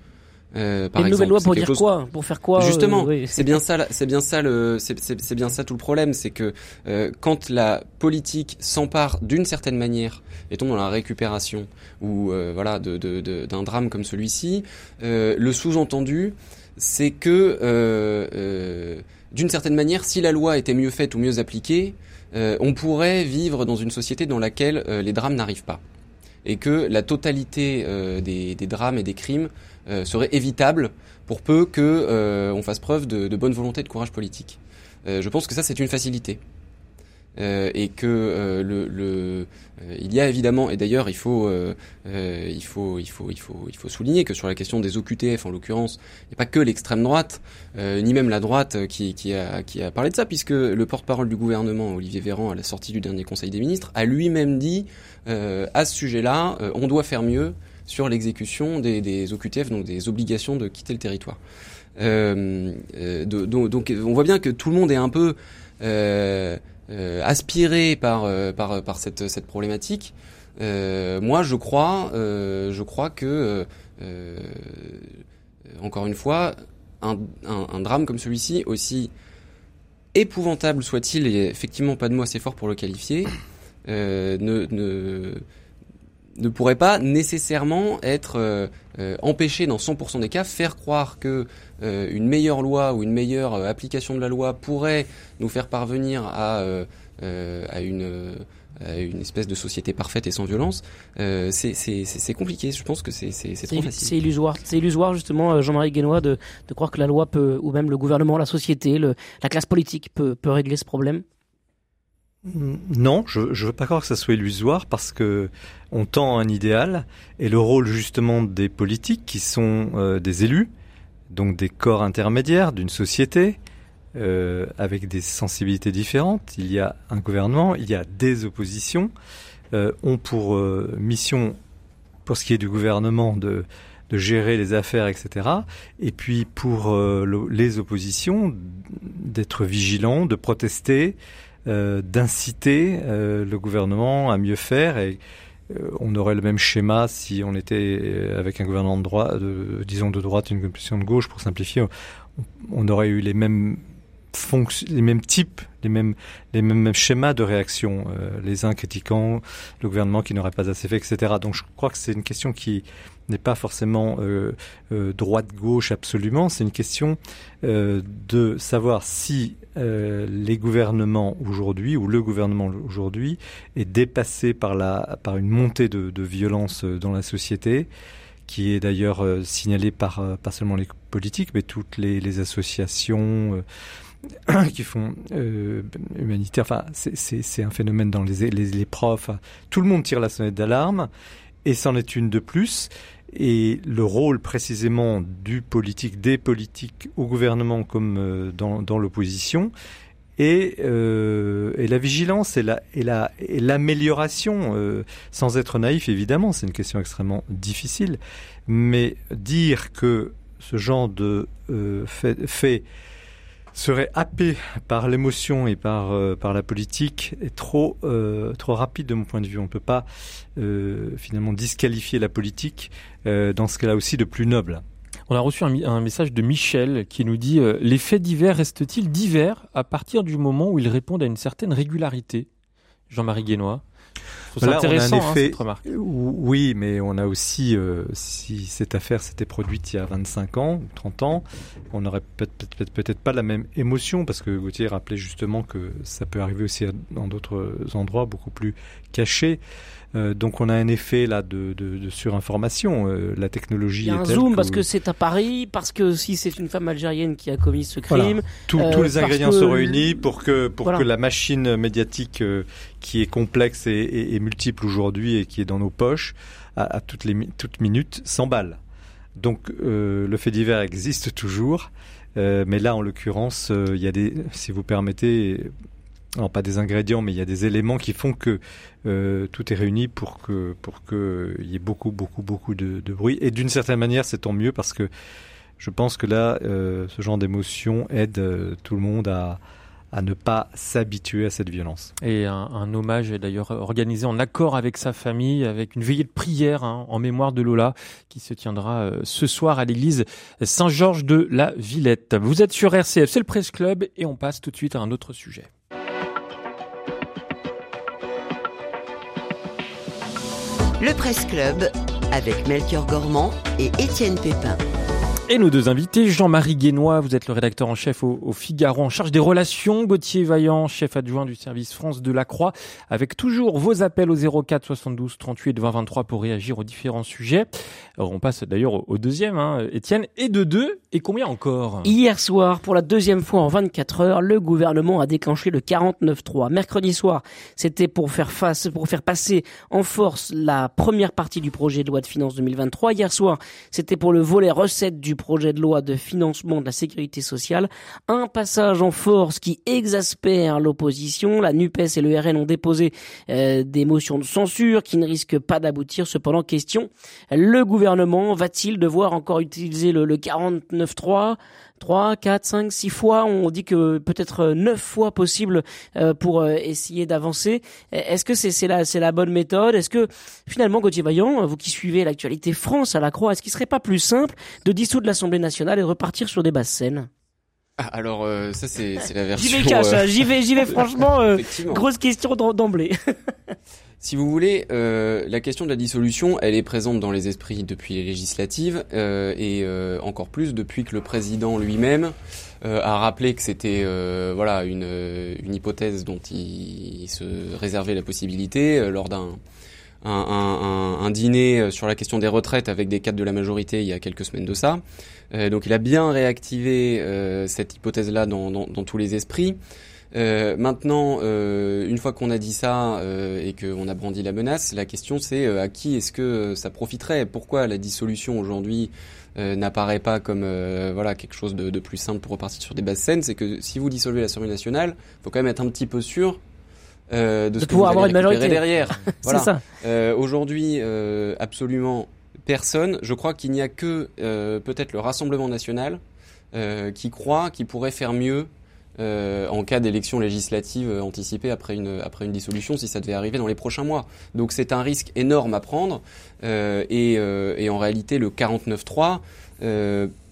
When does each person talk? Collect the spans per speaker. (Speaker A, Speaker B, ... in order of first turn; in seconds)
Speaker A: 0.5-1.8, 2.6-25.8, 26.4-36.4, 37.4-61.4, 62.0-75.1, 75.8-79.1, 80.1-83.3, 83.8-85.4, 86.4-104.1, 378.0-382.1, 384.2-399.6, 400.2-409.8, 410.3-426.6, 427.3-436.2, 436.7-450.3
Speaker B: 1.0-3.5, 103.7-111.2, 254.0-260.2, 332.0-377.3, 379.6-383.1, 427.8-429.8
Speaker C: 112.4-120.7, 121.3-123.6, 124.2-129.1, 129.7-131.6, 132.3-177.9, 178.4-183.6, 184.4-191.1, 191.7-199.7, 200.4-212.8, 213.7-224.8, 234.6-249.6, 250.1-254.8, 258.1-268.8, 269.4-275.7, 276.4-285.1, 285.8-289.6, 290.1-292.1
Speaker D: 225.3-232.5, 233.1-233.8, 234.5-235.8, 292.2-305.7, 315.5-332.1
Speaker E: 311.0-314.8